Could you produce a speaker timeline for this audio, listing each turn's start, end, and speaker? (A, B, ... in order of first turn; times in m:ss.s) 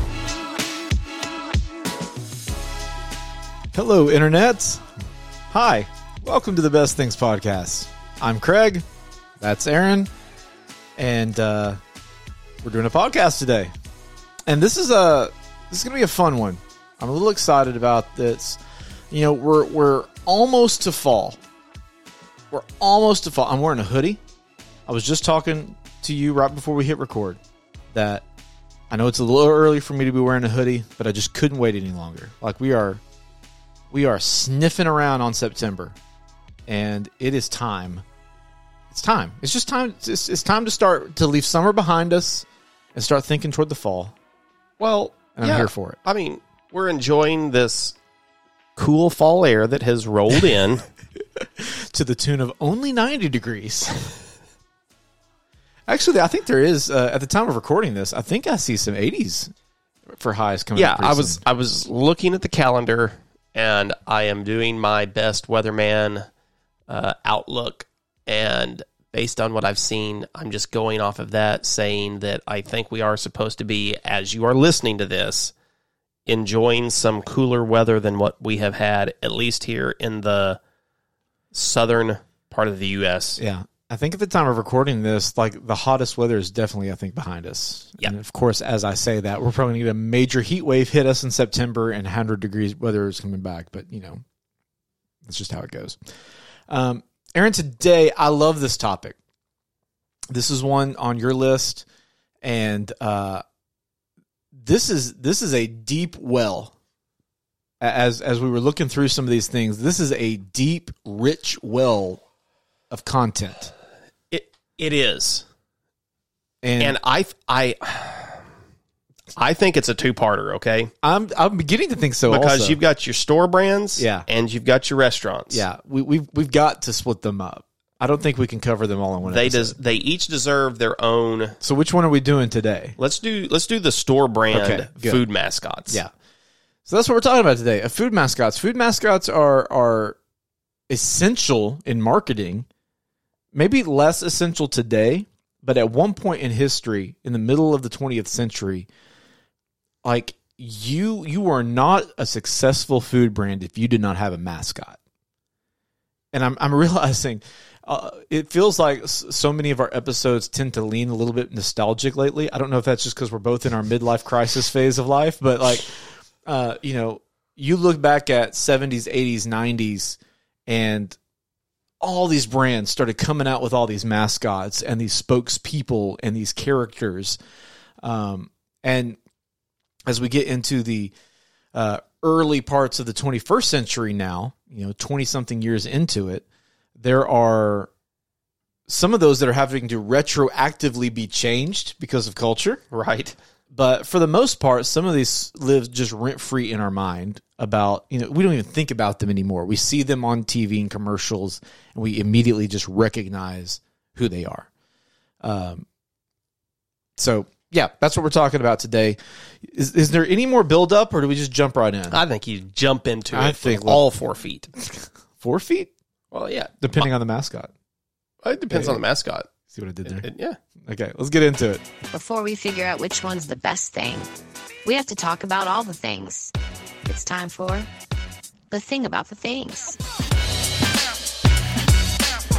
0:03.7-0:04.8 A
0:05.5-0:08.9 A
0:09.4-0:10.1 A
0:11.0-0:11.8 A
0:12.6-0:13.7 A
0:14.5-0:21.4 A
0:22.5-0:24.2 A
0:24.9-0:27.4 A
0:27.9-0:28.2 A
0:28.9-0:33.0 A
0:33.9-0:36.0 A
0:36.7-0:38.0 A
0:38.9-0:44.1 A
0:44.8-0:48.0 B
0:45.4-0:46.0 A
0:48.8-0:50.8 B
0:51.4-0:54.1 A
0:55.9-0:59.5 A
1:00.1-1:01.4 A
1:00.8-1:06.3 B
1:06.9-1:15.5 B
1:16.3-1:20.6 B
1:21.5-1:23.4 B
1:23.4-1:34.2 A
1:35.2-1:36.0 A
1:36.7-1:39.2 A
1:40.3-1:41.8 A
1:42.4-1:43.4 A
1:44.6-1:46.7 A
1:47.8-1:52.2 A
1:52.9-1:53.7 A
1:54.3-1:55.4 B
1:56.6-1:57.0 A
1:56.8-1:58.4 B
1:59.4-2:00.9 B
2:01.0-2:02.8 A
2:02.3-2:05.6 B
2:04.0-2:04.3 A
2:05.5-2:09.8 A
2:09.2-2:11.6 B
2:11.6-2:13.0 A
2:13.0-2:16.0 B
2:14.5-2:15.2 A
2:16.9-2:20.2 A
2:20.9-2:22.7 A
2:23.5-2:28.9 A
2:30.0-2:35.0 A
2:36.3-2:51.2 A
2:52.0-2:57.4 A
2:58.0-2:59.2 A
3:00.1-3:01.1 A
3:01.7-3:06.4 A
3:07.0-3:07.9 A
3:08.9-3:12.8 A
3:12.9-3:13.4 B
3:13.7-3:24.7 A
3:25.4-3:25.9 A
3:27.2-3:32.2 A
3:32.1-3:34.7 B
3:33.3-3:34.0 A
3:34.8-3:35.9 A
3:36.3-3:37.1 B
3:36.8-3:37.7 A
3:38.4-3:39.5 B
3:38.7-3:39.0 A
3:39.7-3:40.3 A
3:40.0-3:40.6 B
3:40.8-3:41.8 A
3:42.1-3:44.3 C
3:44.8-3:46.5 C
3:47.1-3:47.9 C
3:48.7-3:50.0 C